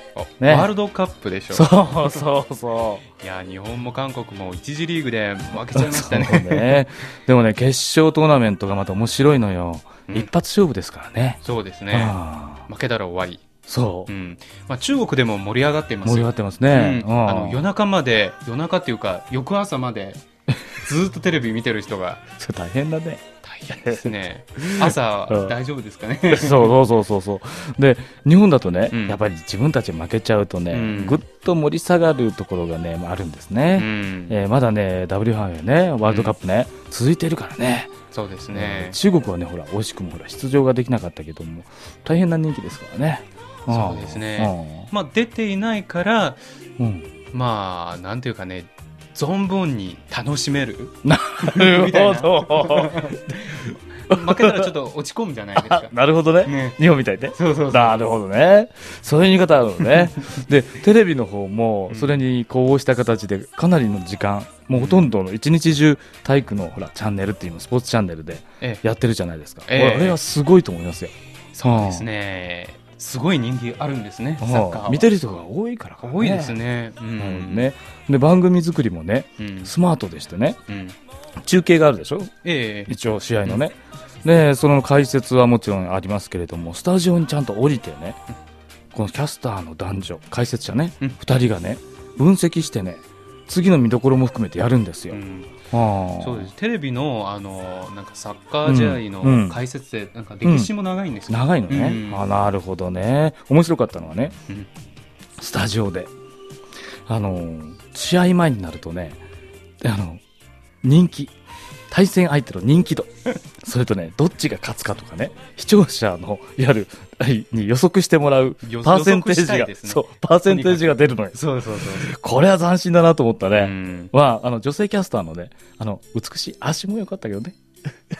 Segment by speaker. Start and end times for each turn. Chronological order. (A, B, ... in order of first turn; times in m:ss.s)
0:00.1-0:02.2 A
0:00.4-0:00.7 B
0:01.5-0:03.0 B
0:03.1-0:06.8 A
0:05.7-0:11.4 B
0:11.4-0:13.4 A
0:11.9-0:12.6 B
0:13.7-0:14.1 B
0:14.1-0:22.2 A
0:16.0-0:17.7 B
0:22.4-0:23.2 B
0:23.4-0:26.8 A
0:23.7-0:25.5 B
0:26.3-0:37.9 B
0:28.9-0:29.2 A
0:30.7-0:31.2 A
0:33.8-0:34.4 A
0:36.0-0:36.3 A
0:38.1-0:39.0 A
0:38.5-0:44.9 B
0:43.7-0:46.4 A
0:46.8-0:47.1 B
0:47.3-0:56.8 A
0:51.0-0:54.7 B
0:55.6-1:12.1 B
0:57.3-0:58.1 A
1:01.9-1:02.2 A
1:04.7-1:05.1 A
1:09.7-1:10.2 A
1:11.5-1:15.1 A
1:14.4-1:16.6 B
1:16.0-1:17.7 A
1:17.2-1:20.6 B
1:19.4-1:19.7 A
1:20.7-1:21.0 A
1:21.4-1:22.3 B
1:22.4-1:23.6 A
1:22.9-1:28.2 B
1:28.9-1:35.2 B
1:35.1-1:35.5 A
1:35.7-1:36.5 B
1:36.2-1:42.2 A
1:38.6-1:39.6 B
1:40.4-1:40.7 B
1:41.3-1:44.3 B
1:45.4-1:46.1 B
1:47.1-1:49.2 B
1:49.8-1:50.2 B
1:50.8-1:51.3 B
1:51.9-1:53.1 B
1:53.6-2:07.6 B
1:58.6-2:02.1 A
2:03.5-2:04.1 A